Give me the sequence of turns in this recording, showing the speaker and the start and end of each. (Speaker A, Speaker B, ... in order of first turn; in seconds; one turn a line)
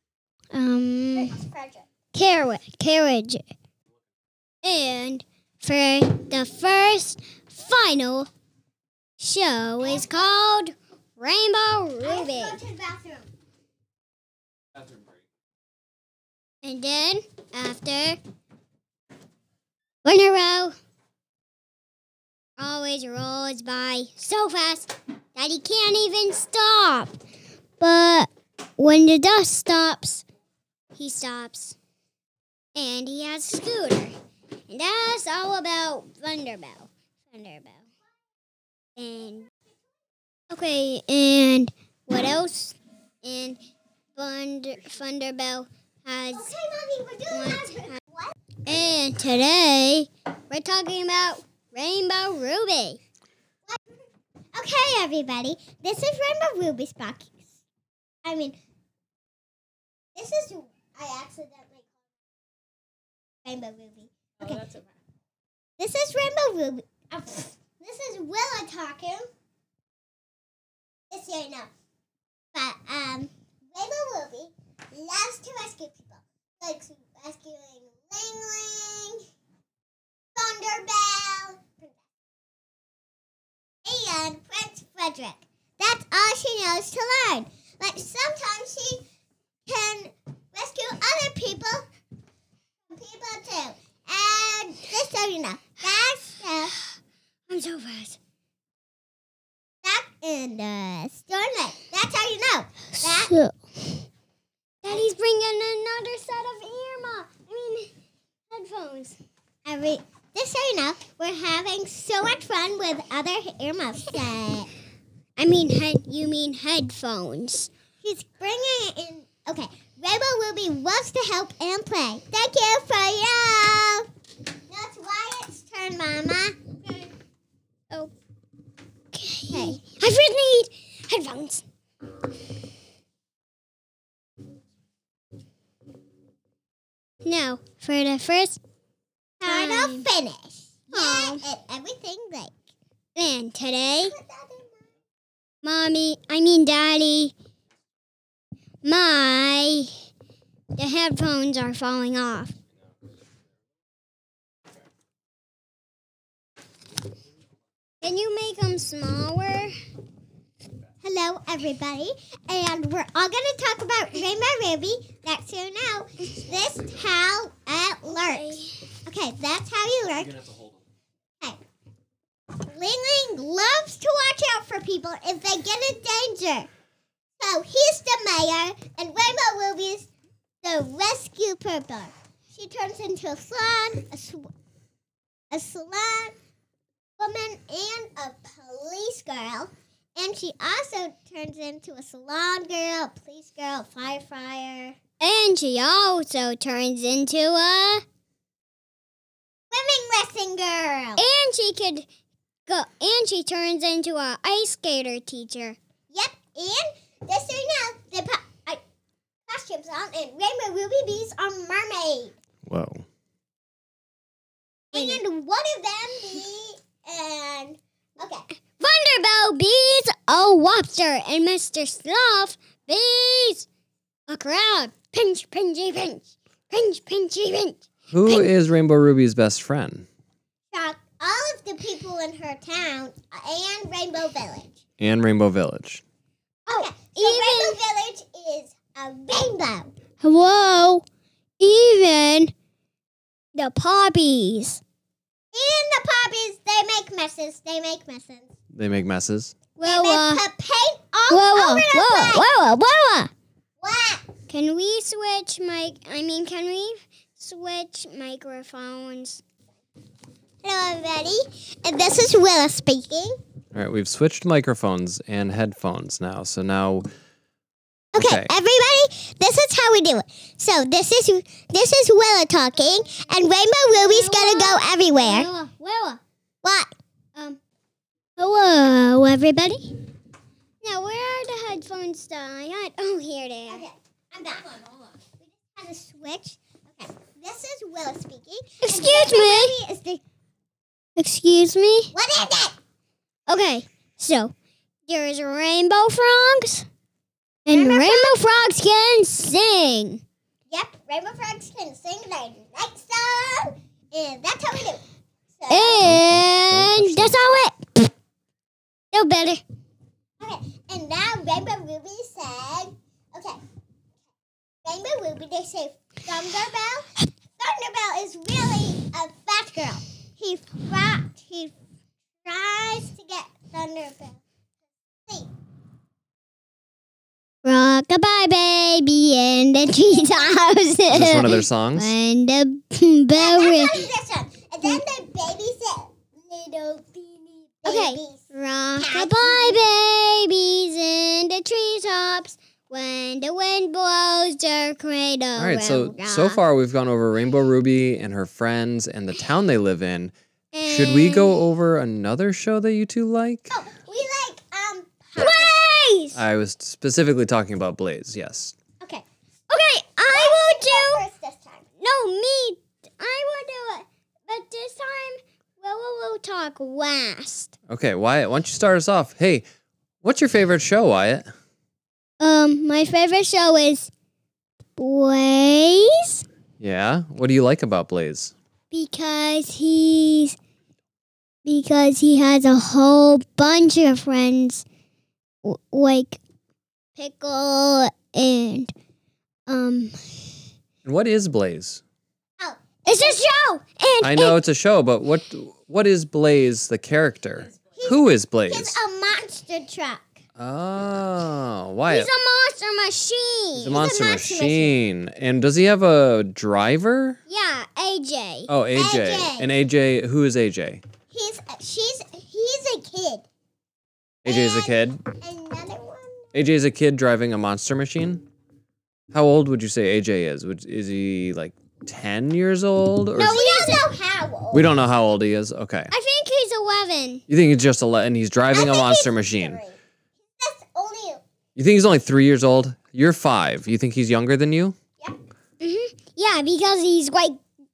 Speaker A: 0.5-1.4
Speaker B: 1.1-1.9
Speaker A: 2.1-3.4
Speaker A: 4.6-8.3
Speaker A: 9.2-12.6
Speaker B: 9.8-10.3
Speaker B: 12.0-13.3
Speaker A: 16.6-18.2
Speaker A: 20.0-20.7
Speaker A: 22.6-27.2
Speaker A: 27.8-30.2
Speaker A: 30.9-31.8
Speaker A: 32.8-34.1
Speaker A: 34.7-37.8
Speaker A: 39.0-39.5
Speaker A: 40.5-43.6
Speaker A: 44.2-46.5
Speaker B: 46.3-48.4
Speaker A: 47.3-48.0
Speaker A: 48.7-53.0
Speaker B: 53.7-54.0
Speaker B: 54.5-57.5
Speaker B: 58.2-58.6
Speaker B: 60.1-61.9
Speaker B: 63.5-64.7
Speaker B: 65.8-69.3
Speaker B: 71.1-71.7
Speaker B: 72.5-79.2
Speaker B: 80.3-82.0
Speaker B: 83.8-89.0
Speaker B: 89.7-91.9
Speaker B: 92.9-96.7
Speaker A: 97.5-98.2
Speaker B: 99.8-103.3
Speaker A: 103.0-103.6
Speaker A: 104.8-107.9
Speaker A: 108.5-109.2
Speaker B: 109.7-114.7
Speaker A: 115.4-117.7
Speaker B: 118.0-124.1
Speaker B: 124.7-127.1
Speaker A: 129.1-131.6
Speaker B: 129.5-129.8
Speaker A: 137.2-138.6
Speaker B: 139.4-142.5
Speaker A: 139.4-140.1
Speaker A: 140.9-141.4
Speaker A: 143.2-144.1
Speaker B: 143.8-144.9
Speaker A: 145.6-147.3
Speaker A: 148.8-149.9
Speaker A: 150.8-152.6
Speaker A: 158.0-159.7
Speaker B: 161.0-170.4
Speaker A: 168.1-168.9
Speaker C: 170.1-170.8
Speaker B: 172.6-176.7
Speaker B: 177.4-180.1
Speaker B: 180.6-184.5
Speaker B: 185.5-186.3
Speaker B: 187.2-195.0
Speaker A: 195.2-198.0
Speaker B: 199.7-201.2
Speaker A: 201.2-202.1
Speaker A: 202.7-205.8
Speaker B: 206.1-208.8
Speaker B: 209.5-212.3
Speaker C: 212.7-213.1
Speaker B: 214.9-218.5
Speaker A: 214.9-215.2
Speaker A: 218.8-223.7
Speaker A: 224.3-228.5
Speaker C: 228.1-230.1
Speaker B: 230.7-234.8
Speaker C: 235.0-236.0
Speaker A: 236.7-237.8
Speaker B: 236.7-239.9
Speaker A: 240.2-241.0
Speaker A: 241.6-242.5
Speaker A: 243.6-244.8
Speaker B: 245.5-248.5
Speaker C: 248.7-249.5
Speaker A: 249.8-250.4
Speaker B: 249.8-252.5
Speaker A: 251.3-253.3
Speaker B: 253.8-254.3
Speaker A: 254.5-259.4
Speaker B: 260.6-263.4
Speaker C: 263.7-267.1
Speaker B: 268.1-275.5
Speaker C: 268.1-268.5
Speaker A: 273.9-276.2
Speaker B: 276.6-276.9
Speaker A: 278.4-279.9
Speaker A: 280.8-283.9
Speaker B: 283.7-290.2
Speaker A: 288.8-289.8
Speaker A: 291.2-292.1
Speaker B: 292.1-292.8
Speaker A: 293.5-294.5
Speaker A: 295.1-296.9
Speaker A: 297.7-300.2
Speaker B: 297.7-298.4
Speaker B: 300.7-305.0
Speaker B: 305.6-306.1
Speaker A: 305.7-308.1
Speaker C: 306.0-307.4
Speaker A: 309.1-309.6
Speaker B: 310.4-313.6
Speaker B: 314.8-317.1
Speaker B: 317.6-321.7
Speaker B: 322.4-324.4
Speaker A: 327.6-334.1
Speaker B: 330.0-330.7
Speaker C: 331.1-332.1
Speaker B: 333.4-338.4
Speaker A: 337.9-346.6
Speaker B: 339.0-339.8
Speaker C: 345.6-350.3
Speaker A: 350.7-351.6
Speaker C: 350.9-353.7
Speaker B: 353.7-355.8
Speaker A: 355.4-356.4
Speaker C: 356.3-358.8
Speaker A: 359.7-361.2
Speaker B: 360.3-361.9
Speaker A: 362.0-367.7
Speaker C: 367.9-369.6
Speaker C: 370.2-371.5
Speaker A: 372.4-374.1
Speaker A: 375.0-376.4
Speaker C: 376.8-378.6
Speaker A: 378.9-380.6
Speaker A: 381.6-384.9
Speaker A: 385.6-386.4
Speaker A: 387.1-388.9
Speaker A: 389.7-390.1
Speaker C: 391.1-392.0
Speaker B: 392.6-393.5
Speaker A: 393.1-394.6
Speaker C: 394.2-399.0
Speaker B: 398.0-400.4
Speaker C: 400.6-402.3
Speaker A: 402.1-404.0
Speaker C: 403.8-407.4
Speaker B: 403.9-404.9
Speaker A: 407.5-408.7
Speaker C: 408.7-411.0
Speaker B: 408.9-409.7
Speaker B: 411.3-413.4
Speaker C: 414.4-415.2
Speaker B: 414.5-416.5
Speaker C: 416.5-418.5
Speaker C: 419.3-423.6
Speaker A: 423.4-424.1
Speaker B: 423.4-424.9
Speaker C: 424.7-426.1
Speaker A: 426.1-427.4
Speaker C: 427.5-429.8
Speaker B: 428.7-430.0
Speaker B: 430.6-431.4
Speaker C: 431.8-435.0
Speaker A: 435.8-437.6